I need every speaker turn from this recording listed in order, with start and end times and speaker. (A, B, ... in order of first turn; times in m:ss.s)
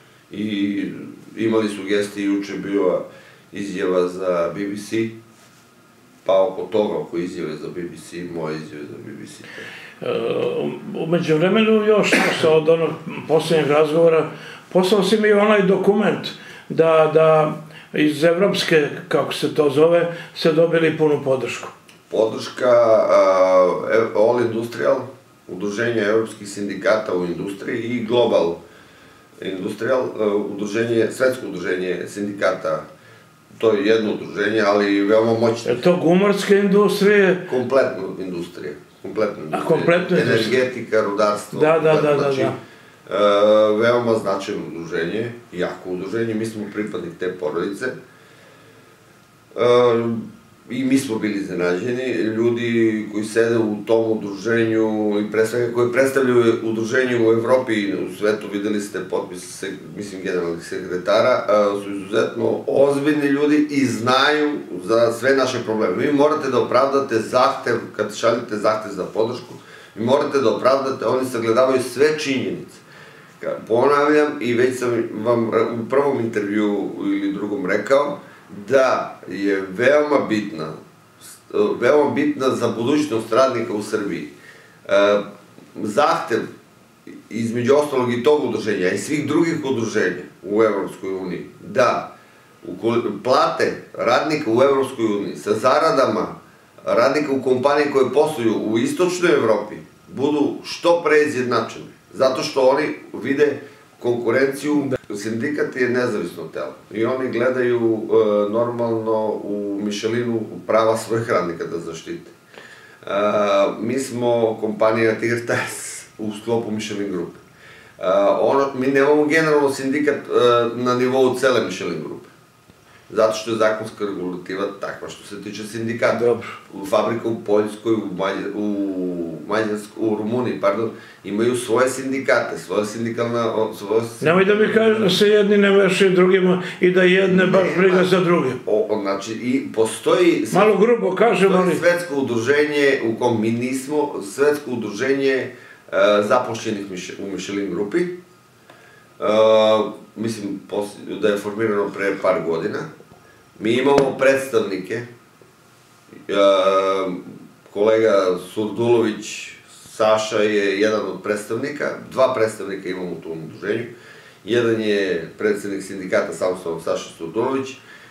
0:00.3-0:05.1 A
0:06.2-0:09.7 A
0:10.0-0:21.7 B
0:22.1-0:28.6 A
0:29.4-0:32.8 A
0:33.6-0:35.8 A
0:35.6-0:37.5 B
0:37.5-0:47.9 A
0:39.5-0:40.6 B
0:41.5-0:42.6 B
0:49.6-1:12.8 A
1:13.4-1:24.3 A
1:24.9-1:25.2 A
1:25.8-1:26.5 A
1:27.3-1:36.3 A
1:36.8-1:52.3 A
1:53.0-1:57.4 A
1:58.0-2:02.3 A
2:03.1-2:15.2 A
2:06.1-2:06.6 B
2:14.2-2:18.6 B
2:17.3-2:18.1 A
2:18.6-2:20.7 A
2:20.5-2:21.8 B
2:21.5-2:28.1 A
2:29.2-2:32.9 A
2:33.6-2:35.1 A
2:36.3-2:43.9 A
2:44.4-2:47.8 A